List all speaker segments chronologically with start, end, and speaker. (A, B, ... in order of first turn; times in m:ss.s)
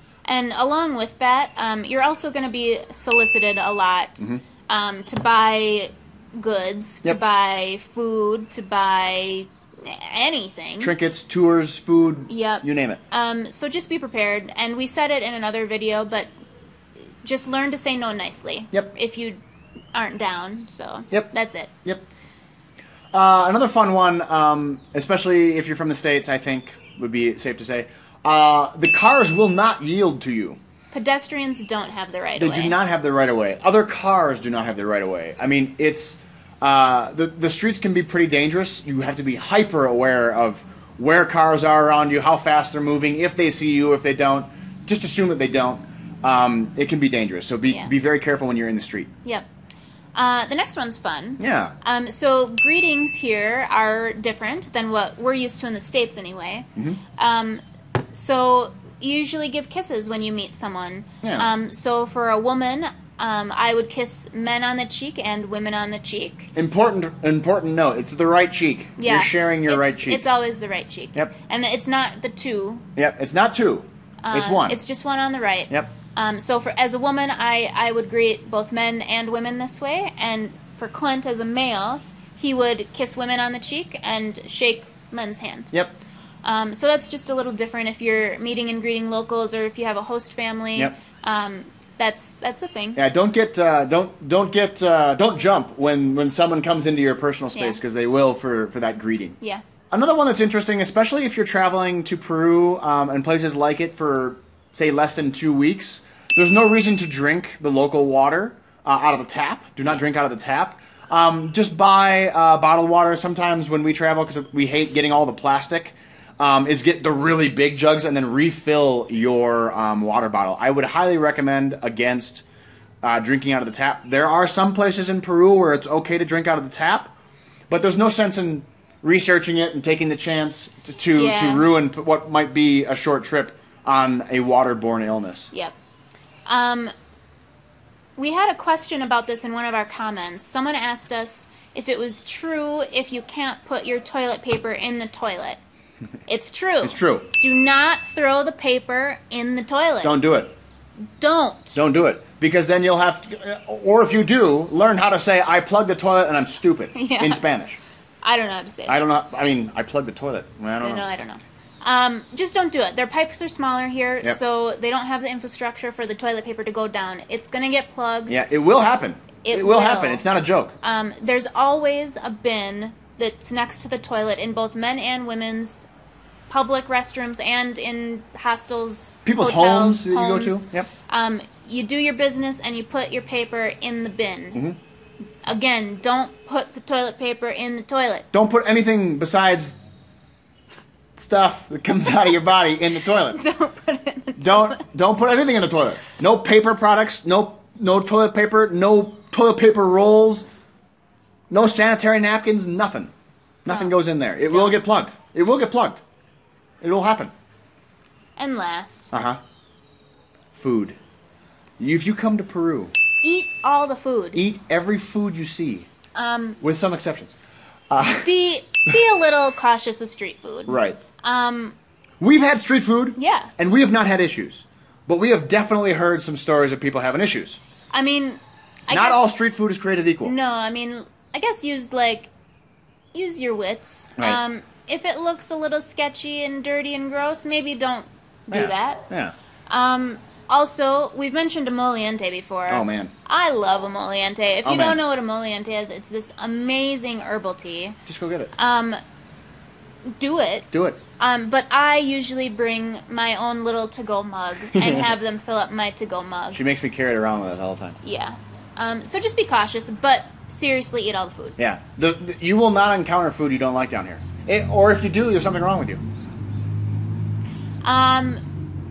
0:00.2-0:10.9 A
0:10.8-0:13.0 B
0:12.3-0:16.3 A
0:17.2-0:19.4 A
0:19.9-0:21.7 A
0:23.1-0:30.6 B
0:30.9-0:32.8 A
0:32.4-0:49.1 B
0:50.2-0:57.6 A
0:51.4-0:51.8 B
0:56.8-0:57.0 B
0:58.1-1:06.5 A
1:01.2-1:01.5 B
1:06.5-1:10.2 B
1:09.0-1:12.8 A
1:13.0-1:14.8 B
1:14.2-1:25.7 A
1:26.4-1:33.0 A
1:33.0-1:39.4 B
1:37.5-1:37.8 A
1:39.9-2:02.4 B
2:03.0-2:07.1 B
2:07.7-2:15.5 B
2:11.2-2:11.7 A
2:16.5-2:16.9 A
2:18.2-2:25.6 A
2:26.3-2:30.2 A
2:26.8-2:27.3 B
2:30.0-2:30.5 B
2:31.2-2:31.8 A
2:31.7-2:37.8 B
2:36.9-2:37.4 A
2:38.2-2:39.0 A
2:38.9-2:41.1 B
2:40.8-2:48.3 A
2:48.3-2:50.8 B
2:49.4-2:50.2 A
2:50.8-2:55.8 A
2:56.5-3:04.6 A
2:59.2-3:00.9 B
3:05.4-3:08.2 A
3:08.3-3:09.8 B
3:11.2-3:13.4 B
3:13.1-3:14.8 A
3:14.4-3:20.5 B
3:21.5-3:23.1 B
3:23.6-3:26.0 B
3:24.4-3:24.8 A
3:26.8-3:27.3 B
3:28.4-3:29.1 A
3:29.1-3:29.4 B
3:30.5-3:31.0 B
3:31.8-3:32.9 B
3:33.2-3:34.4 A
3:34.3-3:35.9 B
3:36.1-3:36.6 A
3:36.6-3:37.4 B
3:37.9-3:38.3 B
3:38.1-3:41.8 A
3:40.7-3:41.0 B
3:42.2-3:47.6 B
3:43.2-3:43.5 A
3:47.9-3:49.3 A
3:48.9-3:50.3 B
3:50.2-3:52.3 A
3:53.1-3:59.0 A
3:58.5-3:59.3 B
3:59.7-4:08.0 A
4:02.7-4:03.1 B
4:04.6-4:05.0 B
4:08.1-4:08.5 B
4:08.5-4:09.0 A
4:10.2-4:16.6 A
4:10.7-4:11.0 B
4:14.7-4:15.1 B
4:16.5-4:18.0 B
4:18.0-4:21.6 A
4:21.6-4:26.0 B
4:27.8-4:28.4 A